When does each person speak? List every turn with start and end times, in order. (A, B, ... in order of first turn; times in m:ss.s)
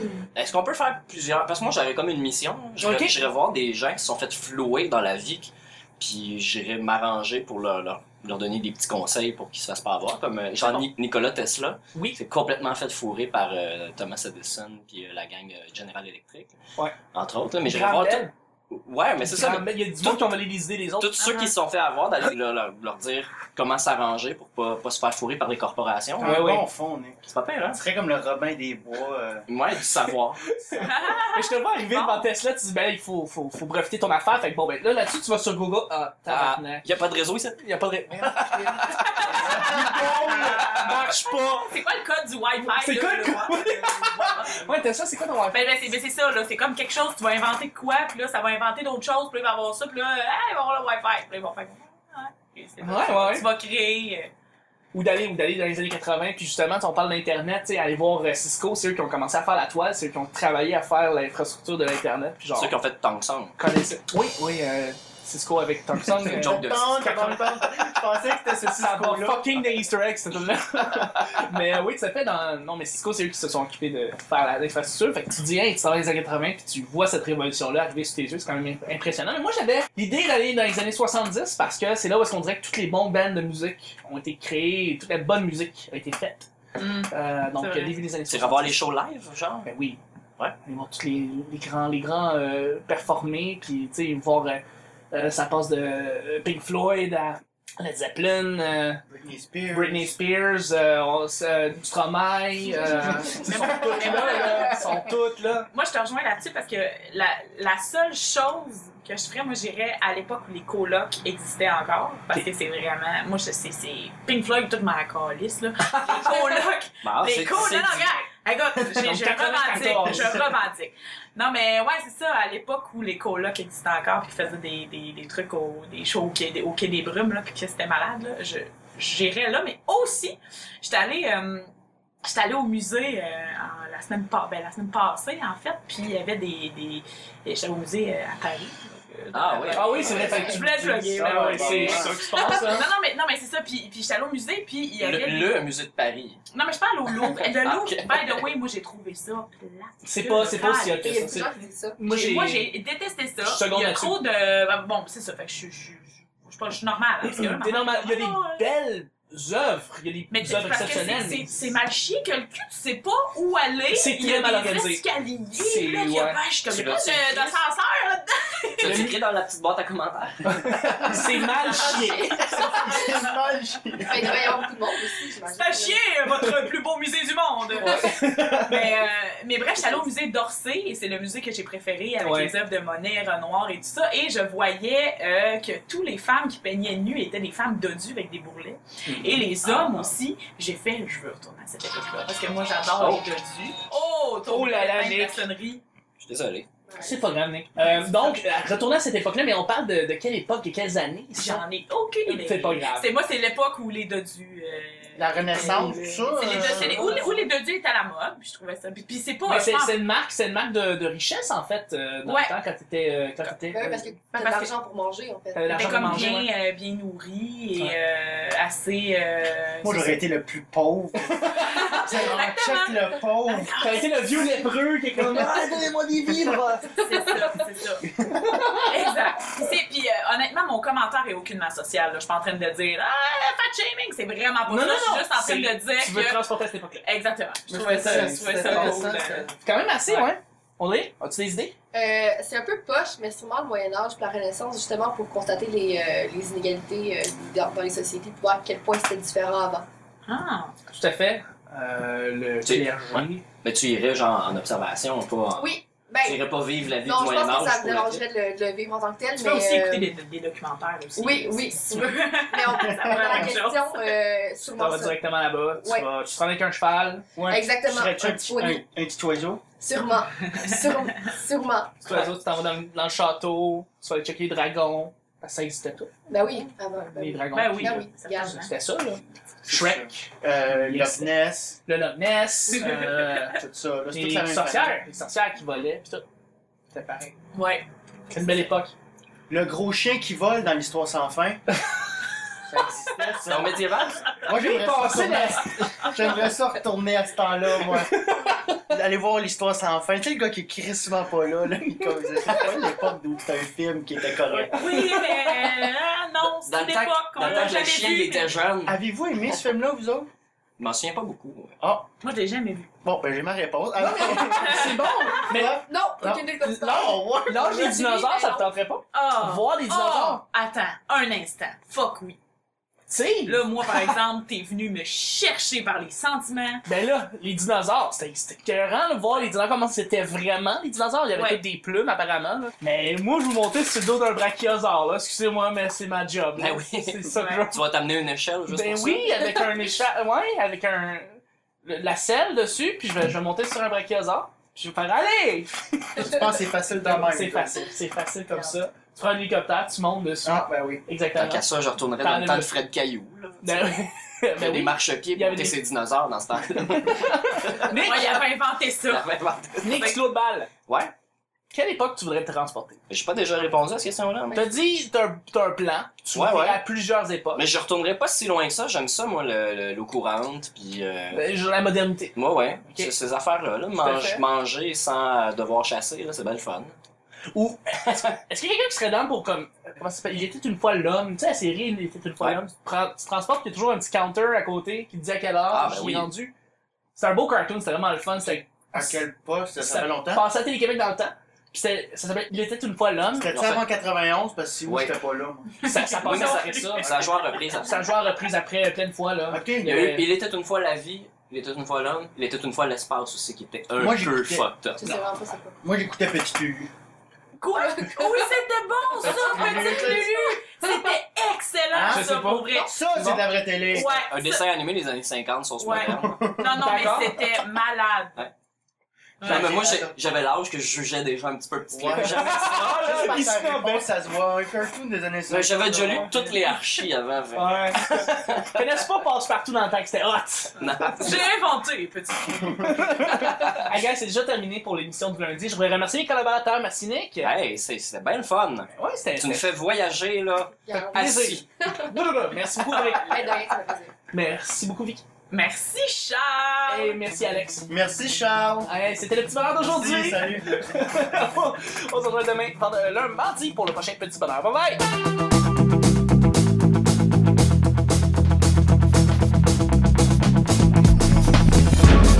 0:00.3-0:16.6 A
0:02.8-0:03.2 B
0:17.1-0:20.3 A
0:17.6-0:18.3 B
0:19.2-0:21.2 B
0:21.0-0:26.5 A
0:21.2-0:21.5 C
0:26.2-0:29.4 D
0:26.2-0:26.6 B
0:27.3-0:27.8 A
0:29.5-0:30.4 A
0:30.5-0:36.8 B
0:30.8-0:32.3 C
0:36.3-0:37.6 A
0:37.6-0:41.7 B
0:38.1-0:40.6 D
0:39.0-0:44.8 C
0:42.7-0:45.7 B
0:45.5-0:54.3 C
0:52.8-0:53.4 B
0:54.9-1:02.7 B
1:02.6-1:03.5 A
1:03.6-1:07.9 B
1:06.0-1:09.7 D
1:06.2-1:07.1 A
1:08.6-1:26.5 B
1:26.8-1:28.0 C
1:27.1-1:28.8 B
1:28.3-1:29.7 A
1:29.6-1:30.0 B
1:30.6-1:39.0 B
1:39.1-1:40.1 D
1:39.7-1:45.7 B
1:43.4-1:44.9 C
1:45.7-2:11.7 C
1:55.8-1:56.6 B
1:57.0-1:58.2 A
1:58.9-2:00.5 B
2:12.2-2:25.5 C
2:19.3-2:20.5 A
2:19.7-2:22.9 B
2:21.1-2:22.4 D
2:25.0-2:26.4 A
2:26.5-2:31.3 C
2:27.1-2:28.5 A
2:30.0-2:32.7 B
2:30.6-2:32.0 E
2:32.0-2:38.7 C
2:33.4-2:34.1 B
2:37.2-2:41.7 B
2:40.3-2:49.1 C
2:43.9-2:45.0 B
2:45.5-2:46.4 B
2:46.7-2:47.6 A
2:48.8-2:50.8 A
2:48.8-2:49.2 B
2:50.5-2:52.9 B
2:51.1-2:53.3 C
2:51.6-2:53.1 E
2:52.7-2:54.6 D
2:54.0-2:56.0 E
2:55.5-3:15.8 C
2:57.8-2:58.9 B
3:02.2-3:02.5 B
3:09.0-3:09.5 B
3:09.6-3:10.1 A
3:13.0-3:13.3 A
3:14.5-3:15.4 B
3:16.2-3:16.7 A
3:16.9-3:17.2 E
3:17.0-3:21.6 B
3:17.8-3:18.4 C
3:21.3-3:30.0 C
3:22.2-3:23.1 B
3:25.2-3:27.2 D
3:25.5-3:26.4 B
3:25.7-3:27.3 E
3:29.4-3:34.1 B
3:32.2-3:32.5 C
3:33.7-3:36.3 E
3:34.3-3:34.7 C
3:35.5-3:36.5 B
3:35.7-3:40.2 C
3:39.8-3:43.7 D
3:41.6-3:44.5 C
3:43.8-3:47.0 B
3:47.0-3:48.1 C
3:48.8-3:56.4 C
3:54.7-3:57.0 B
3:57.0-3:59.5 C
3:57.7-3:59.5 D
3:58.0-4:01.7 B
4:01.9-4:09.9 E
4:10.2-4:10.7 C
4:10.9-4:13.4 B
4:12.6-4:18.2 A
4:15.6-4:16.4 E
4:17.0-4:20.1 E
4:19.3-4:24.1 C
4:21.2-4:26.1 E
4:22.8-4:23.5 D
4:24.7-4:27.2 B
4:27.4-4:29.6 D
4:27.5-4:28.8 E
4:29.8-4:32.0 E
4:30.5-4:30.9 C
4:32.0-4:36.1 B
4:36.3-4:38.6 E
4:37.1-4:41.3 B
4:37.5-4:38.7 C
4:39.6-4:41.8 D
4:41.8-4:43.6 B
4:42.7-4:43.3 C
4:43.6-4:45.0 D
4:44.1-4:46.2 B
4:46.9-4:47.4 B
4:47.5-4:48.6 C
4:48.3-4:48.9 B
4:49.5-4:51.6 D
4:52.6-5:05.1 D
4:53.4-4:54.4 A
4:54.5-4:56.3 B
4:57.8-4:58.9 B
5:02.3-5:02.8 B
5:04.5-5:08.6 C
5:04.7-5:05.8 B
5:06.4-5:09.0 A
5:08.8-5:10.3 D
5:10.8-5:11.8 A
5:11.8-5:12.1 D
5:12.2-5:12.9 C
5:13.0-5:17.9 D
5:14.0-5:15.8 B
5:14.1-5:14.4 E
5:14.5-5:15.4 C
5:15.5-5:18.7 E
5:16.6-5:20.4 B
5:19.1-5:22.4 C
5:23.1-5:24.1 B
5:23.4-5:26.8 C
5:26.8-5:37.8 B
5:31.3-5:31.6 C
5:36.6-5:39.6 A
5:37.3-5:37.7 C
5:38.7-5:51.6 B
5:46.2-5:47.8 D
5:48.5-5:48.8 C
5:50.4-5:51.0 D
5:51.3-5:53.9 A
5:52.2-5:52.7 B
5:53.6-5:55.8 B
5:54.6-5:58.4 A
5:56.9-5:58.2 B
5:57.8-5:59.3 C
5:59.1-6:00.1 A
5:59.8-6:00.7 B
5:59.9-6:00.2 C
6:00.9-6:01.1 A
6:01.7-6:03.0 B
6:03.1-6:04.7 A
6:04.5-6:07.7 B
6:06.3-6:06.8 A
6:07.6-6:11.5 A
6:11.3-6:13.1 B
6:12.3-6:16.9 A
6:14.0-6:14.4 B
6:17.5-6:26.5 B
6:18.0-6:18.3 A
6:25.7-6:26.3 A
6:27.2-6:29.2 B
6:28.9-6:30.4 D
6:29.8-6:33.5 B
6:33.3-6:35.7 D
6:33.5-6:33.8 A
6:34.8-6:35.1 A
6:35.8-6:37.1 B
6:35.8-6:37.2 C
6:36.2-6:38.0 A
6:37.8-6:40.2 B
6:39.5-6:40.1 D
6:39.8-6:45.0 A
6:44.0-6:44.6 D
6:45.0-6:45.8 E
6:45.8-6:46.9 D
6:47.6-6:52.9 C
6:49.2-6:50.5 D
6:51.9-6:54.1 D
6:52.1-6:53.4 B
6:53.9-6:54.6 C
6:53.9-6:56.4 A
6:55.8-6:58.5 C
6:56.0-6:56.8 D
6:56.8-6:57.5 B
6:59.4-7:00.0 C
6:59.4-7:03.1 A
6:59.5-6:59.8 B
6:59.5-7:00.1 D
7:01.9-7:06.4 D
7:02.1-7:04.1 B
7:05.5-7:08.8 A
7:07.5-7:11.3 B
7:10.8-7:11.4 A
7:11.1-7:13.3 C
7:12.8-7:17.5 B
7:13.3-7:13.8 A
7:17.4-7:21.6 A
7:18.9-7:19.6 B
7:20.9-7:22.1 E
7:21.1-7:23.7 B
7:23.1-7:24.1 E
7:24.3-7:25.2 B
7:25.5-7:27.2 C
7:26.9-7:27.9 B
7:27.9-7:28.9 D
7:28.8-7:35.0 B
7:29.8-7:30.8 D